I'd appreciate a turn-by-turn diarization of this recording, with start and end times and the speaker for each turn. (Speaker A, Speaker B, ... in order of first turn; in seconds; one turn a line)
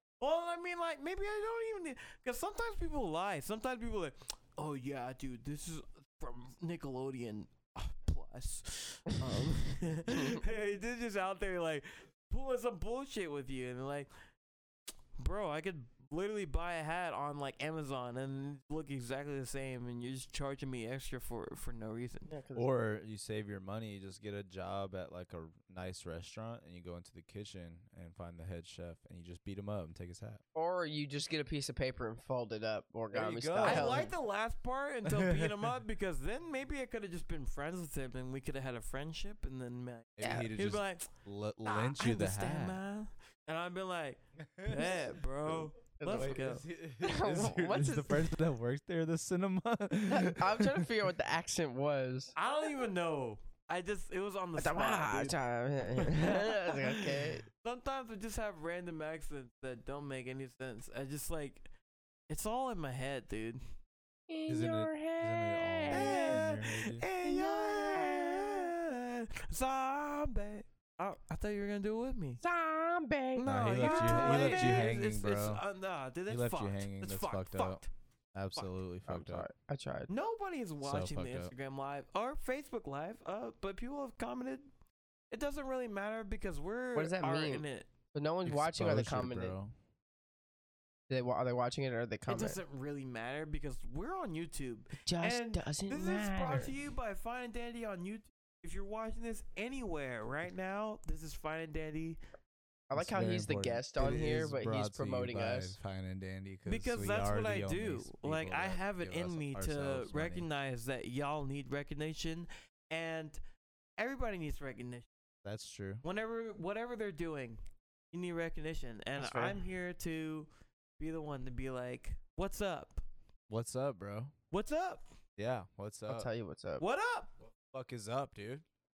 Speaker A: 0.2-14.1
Speaker B: 10.1-10.4
Speaker A: 15.2-22.3
Speaker B: 22.3-22.7
Speaker C: 22.6-30.4
Speaker B: 30.6-34.1
Speaker C: 33.1-34.1
Speaker A: 33.6-41.1
Speaker C: 35.1-35.7
Speaker C: 40.2-42.8
Speaker B: 40.2-40.5
Speaker A: 41.6-46.6
Speaker C: 44.4-45.1
Speaker B: 46.0-46.4
Speaker C: 46.1-50.9
Speaker B: 47.0-48.4
Speaker B: 50.1-52.3
Speaker A: 52.4-55.4
Speaker B: 54.6-57.5
Speaker A: 56.0-61.7
Speaker A: 62.3-63.6
Speaker B: 64.3-66.5
Speaker C: 64.5-67.0
Speaker A: 65.9-72.4
Speaker B: 67.2-68.7
Speaker B: 72.4-74.9
Speaker A: 73.3-77.9
Speaker C: 73.5-75.6
Speaker C: 76.3-77.8
Speaker C: 78.3-79.5
Speaker B: 79.1-80.1
Speaker A: 80.1-84.7
Speaker C: 80.8-81.5
Speaker A: 85.3-87.9
Speaker B: 87.0-89.5
Speaker C: 88.5-89.7
Speaker B: 91.1-92.6
Speaker A: 92.3-102.2
Speaker B: 95.1-96.7
Speaker B: 102.9-105.8
Speaker C: 103.0-110.5
Speaker A: 106.7-113.4
Speaker A: 114.0-115.1
Speaker C: 115.4-116.0
Speaker A: 116.0-117.6
Speaker A: 118.1-123.0
Speaker B: 119.2-119.6
Speaker C: 123.5-124.3
Speaker A: 124.5-125.0
Speaker C: 125.4-126.3
Speaker B: 126.1-126.8
Speaker A: 126.8-127.3
Speaker C: 127.7-128.7